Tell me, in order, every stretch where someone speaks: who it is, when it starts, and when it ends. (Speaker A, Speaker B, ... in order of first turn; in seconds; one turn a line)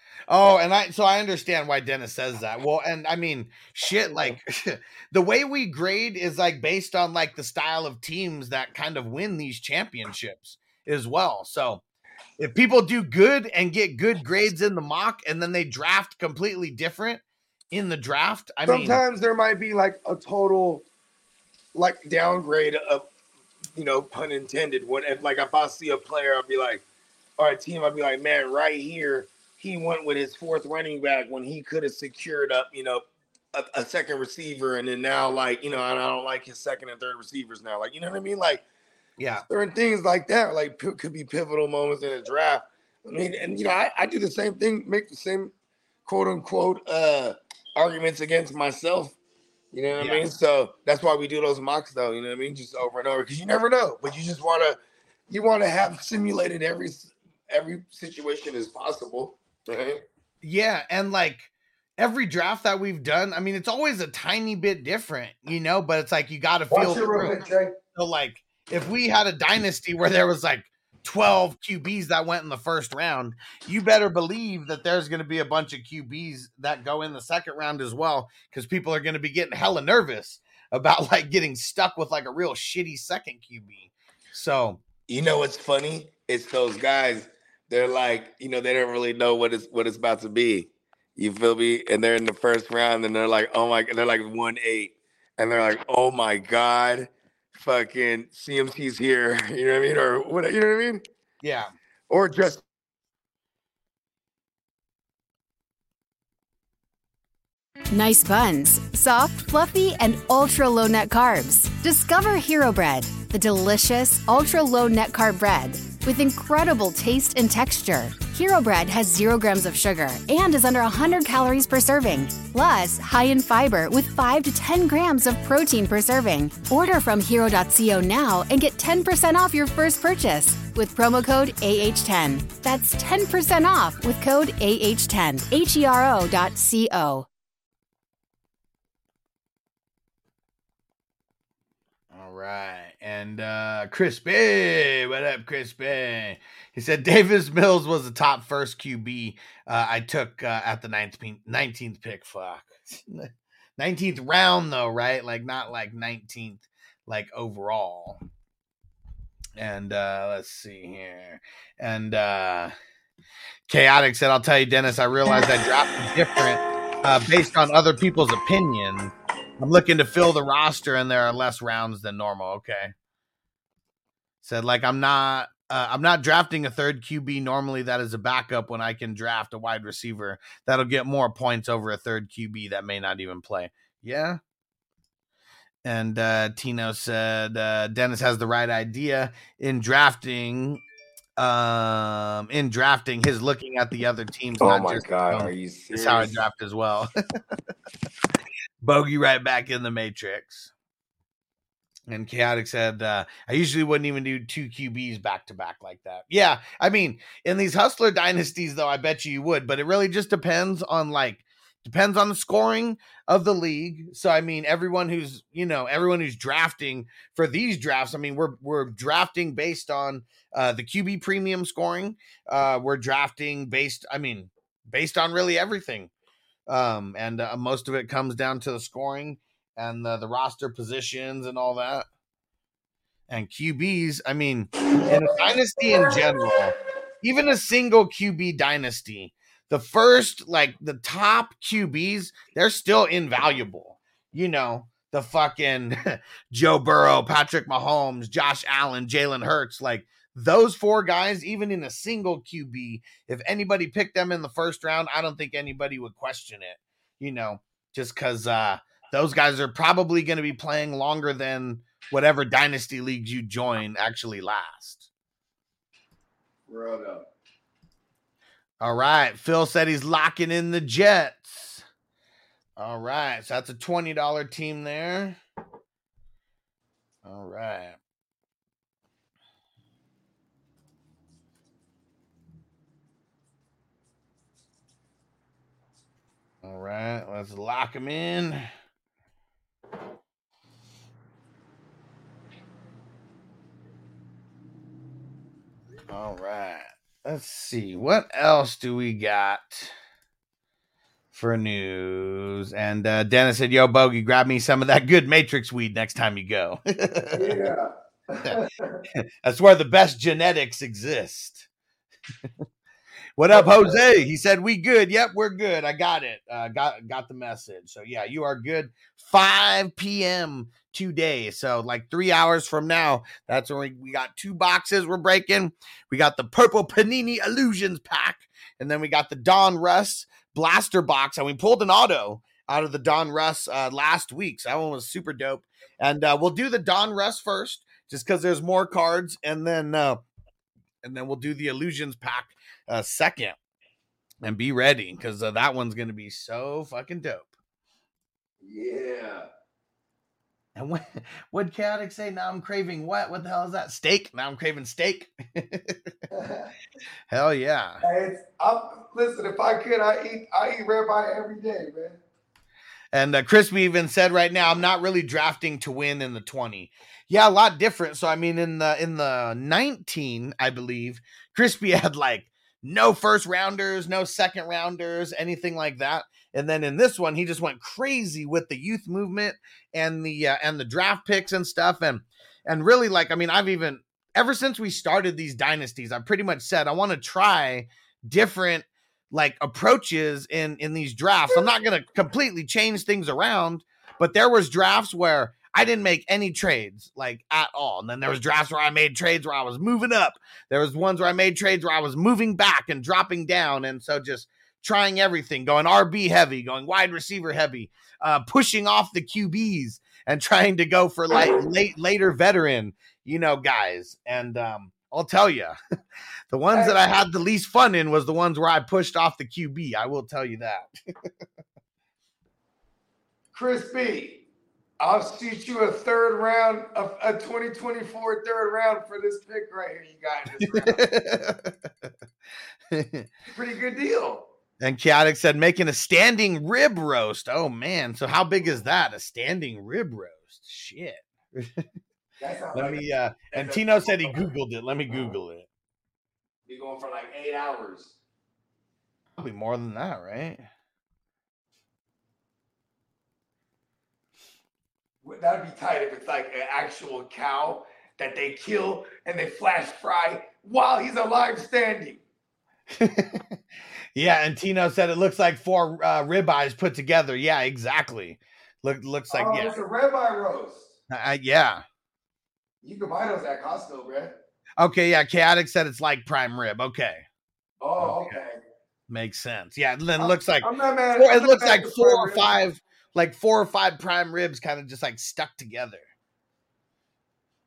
Speaker A: 0.3-11.8
Speaker A: 12.4-19.0
Speaker B: 18.6-20.8
Speaker B: 21.7-23.1
Speaker B: 23.7-26.8
Speaker B: 27.4-38.6
Speaker A: 39.2-39.5
Speaker B: 39.5-45.5
Speaker B: 46.0-49.2
Speaker B: 49.7-60.0
Speaker A: 50.0-50.2
Speaker A: 60.4-67.4
Speaker B: 66.7-67.8
Speaker A: 67.9-84.8
Speaker B: 85.1-101.0
Speaker A: 101.4-101.7
Speaker B: 102.1-102.6
Speaker C: 107.9-137.3
Speaker A: 142.1-158.2
Speaker A: 159.6-162.7
Speaker A: 163.7-172.9
Speaker A: 174.4-184.4
Speaker A: 185.8-190.8
Speaker A: 191.4-197.1
Speaker B: 194.6-196.4
Speaker A: 198.8-200.7
Speaker A: 202.1-226.1
Speaker A: 226.7-232.1
Speaker A: 233.3-265.1
Speaker B: 234.9-235.5
Speaker B: 266.7-267.3
Speaker A: 268.8-271.8
Speaker A: 272.8-275.4
Speaker A: 277.2-278.0
Speaker A: 286.6-288.7
Speaker A: 296.1-299.9
Speaker A: 301.3-307.6
Speaker B: 307.3-309.0
Speaker A: 308.4-311.7
Speaker A: 313.4-340.2
Speaker B: 313.5-314.0
Speaker A: 341.0-343.6
Speaker A: 344.4-347.5
Speaker B: 348.6-349.5
Speaker A: 350.7-356.1
Speaker B: 356.3-356.7
Speaker A: 357.3-358.0
Speaker B: 358.0-362.2
Speaker A: 363.1-415.8
Speaker A: 416.5-420.9
Speaker B: 416.7-417.0
Speaker B: 423.5-424.4
Speaker B: 425.0-431.0
Speaker A: 430.6-432.1
Speaker A: 432.9-433.3
Speaker B: 433.5-434.5
Speaker A: 434.8-441.9
Speaker B: 442.4-444.4
Speaker A: 442.7-445.7
Speaker B: 446.6-448.1
Speaker A: 449.4-450.6
Speaker B: 455.2-462.2
Speaker A: 462.9-463.5
Speaker A: 464.1-469.8
Speaker B: 469.3-470.9
Speaker A: 471.1-471.8
Speaker B: 472.8-474.3
Speaker A: 474.8-477.2
Speaker B: 477.8-478.6
Speaker A: 478.0-478.4
Speaker A: 479.1-486.1
Speaker B: 480.2-482.5